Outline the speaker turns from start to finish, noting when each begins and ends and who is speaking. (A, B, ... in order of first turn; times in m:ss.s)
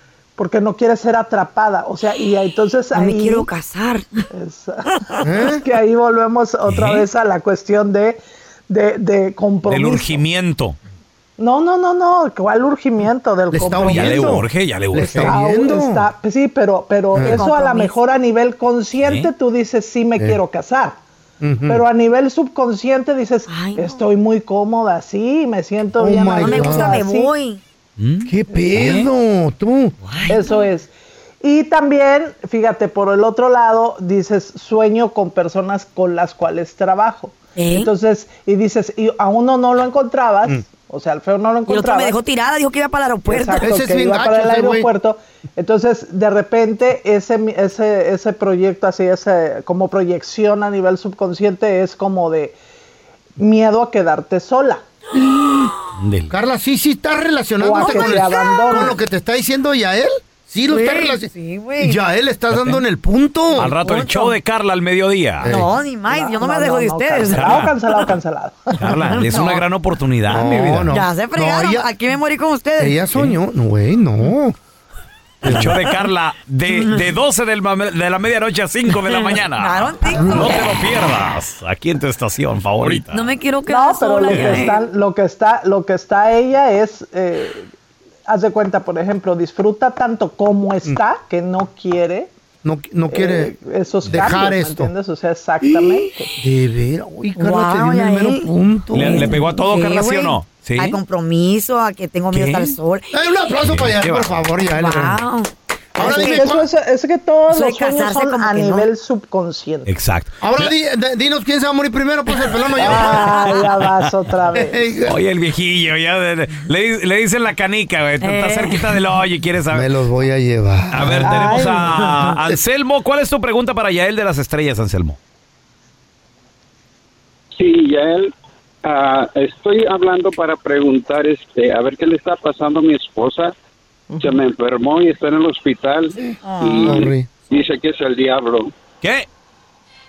0:00.4-0:03.5 A
0:02.9-0:04.2 B
0:04.3-0:10.2 A
0:05.2-0:05.6 C
0:06.7-0:07.1 D
0:09.7-0:10.8 D
0:11.4-0:14.4 A
0:13.5-0:16.1 C
0:13.8-0:15.3 D
0:15.1-0:21.0 A
0:17.1-0:17.4 C
0:17.2-0:17.9 B
0:19.0-0:19.3 D
0:21.4-0:21.8 C
0:21.7-0:27.3 A
0:23.5-0:24.0 B
0:26.0-0:27.0 C
0:26.4-0:27.6 B
0:28.0-0:29.1 D
0:28.2-0:30.0 C
0:30.1-0:30.5 B
0:30.3-0:42.2 A
0:37.6-0:37.9 B
0:41.7-0:43.7 B
0:43.3-0:52.6 A
0:43.6-0:44.9 C
0:53.4-0:54.8 A
0:55.2-0:55.7 C
0:56.0-0:56.3 D
0:56.3-1:03.7 C
0:57.6-0:59.0 A
0:57.8-0:58.9 B
1:00.7-1:02.0 B
1:02.5-1:02.8 D
1:03.6-1:04.4 B
1:03.6-1:05.5 D
1:05.4-1:05.7 C
1:05.5-1:08.0 B
1:06.1-1:09.1 A
1:07.3-1:07.7 D
1:08.8-1:10.9 D
1:09.1-1:09.6 B
1:10.3-1:11.9 C
1:10.9-1:13.0 B
1:12.8-1:14.6 C
1:15.4-1:15.8 C
1:15.4-1:23.3 D
1:19.1-1:20.6 B
1:20.1-1:20.6 C
1:23.1-1:24.8 B
1:23.7-1:27.7 A
1:24.3-1:24.7 D
1:28.3-1:32.3 A
1:32.6-1:33.5 C
1:33.1-1:36.3 A
1:34.1-1:34.9 C
1:36.4-1:39.4 C
1:37.4-1:43.1 B
1:38.9-1:41.0 D
1:42.3-1:42.8 D
1:43.1-1:45.2 C
1:43.7-1:44.4 D
1:44.8-1:46.5 B
1:46.0-1:46.7 C
1:46.0-1:49.9 A
1:47.5-1:48.9 B
1:49.9-1:50.7 D
1:50.4-1:53.6 C
1:52.8-1:54.8 A
1:54.5-1:55.2 C
1:55.1-1:59.9 D
1:58.2-1:58.9 B
1:59.7-2:01.9 C
2:00.9-2:05.2 D
2:01.2-2:02.0 A
2:07.5-2:08.3 E
2:08.8-2:13.5 E
2:14.1-2:14.4 A
2:14.2-2:18.7 E
2:16.4-2:17.1 B
2:16.8-2:17.3 C